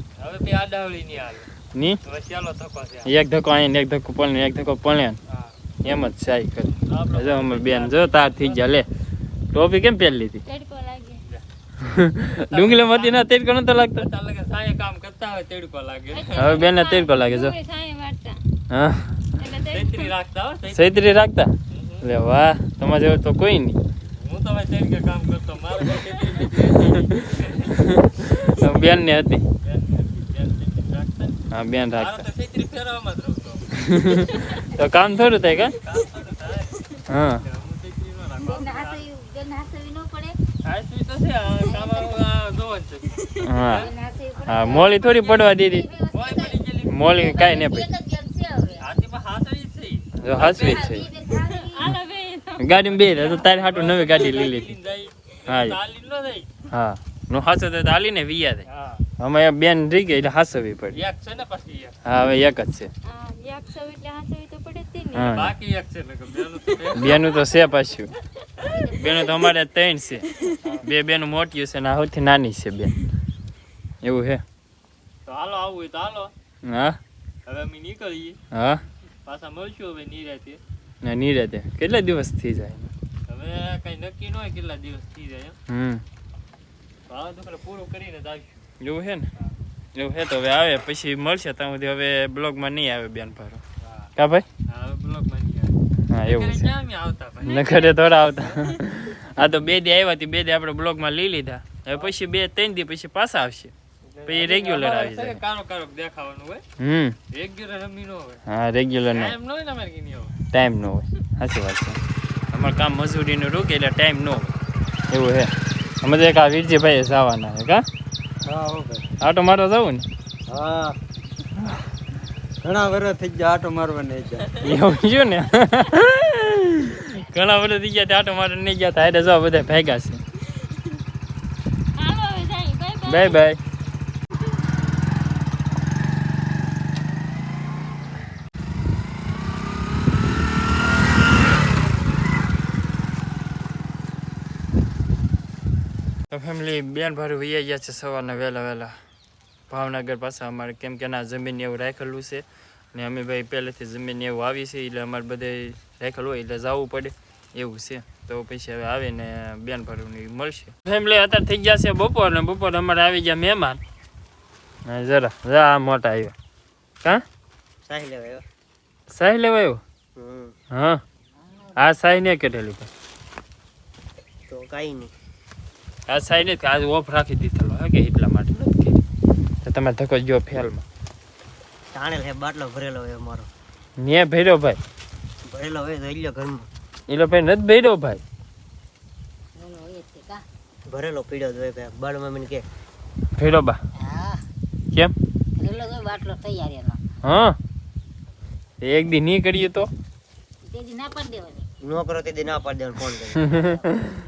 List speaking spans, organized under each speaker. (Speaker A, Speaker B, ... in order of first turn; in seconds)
Speaker A: 0.2-1.5, 2.0-3.1, 6.9-8.7, 12.3-13.3, 14.0-16.7, 19.7-20.9, 21.7-22.1, 24.2-27.8, 29.6-31.4, 31.9-34.4, 35.2-36.9, 37.4-39.0, 40.6-43.9, 46.1-47.1, 48.8-51.1, 53.0-56.5, 58.6-59.0, 60.9-61.9, 65.3-67.2, 70.6-70.9, 75.2-76.3, 77.5-78.4, 79.2-80.6, 83.3-85.5, 87.1-88.6, 93.8-94.1, 94.7-98.8, 104.1-106.6, 107.3-108.4, 109.1-110.3
Speaker B: 1.7-2.0, 3.0-5.2, 5.8-8.9, 9.5-10.4, 11.8-14.1, 16.4-17.6, 18.7-19.3, 20.7-23.8, 27.8-29.4, 31.5-32.3, 33.8-35.8, 37.1-37.4, 43.4-43.9, 44.5-45.9, 46.9-47.9, 50.2-51.1, 52.6-54.7, 55.5-55.8, 56.7-58.6, 59.2-61.0, 62.0-62.9, 65.1-65.5, 66.9-68.1, 69.0-72.9, 74.0-74.4, 76.6-77.0, 78.5-78.8, 81.0-82.9, 85.7-86.0, 88.8-89.3, 89.9-93.6, 94.2-94.5, 96.1-96.7, 97.4-103.7, 104.2-105.4, 106.8-107.2, 108.5-109.3, 110.5-112.0, 112.5-114.5, 115.1-117.8, 119.2-120.1, 124.5-130.2, 133.1-133.6, 146.3-149.0, 149.7-163.8, 164.8-166.3, 169.1-169.8, 170.7-171.0, 171.8-172.9, 176.1-179.0, 179.6-180.8, 184.0-184.8, 187.1-188.2, 193.3-193.8, 197.2-197.6, 198.8-199.9, 203.5-204.1
Speaker C: 10.4-11.2, 16.1-18.4, 19.4-20.1, 51.4-52.7, 63.0-65.3, 131.9-133.4
Speaker D: 38.4-40.4, 41.6-42.2, 43.7-48.9, 50.4-52.0, 68.7-69.3, 171.4-171.8, 189.5-190.4, 193.9-194.4, 195.5-197.0, 200.6-201.7, 203.5-203.9
Speaker E: 167.9-168.4, 170.2-170.5, 174.5-175.1, 181.9-183.5, 185.4-186.7, 190.9-192.6, 201.8-203.4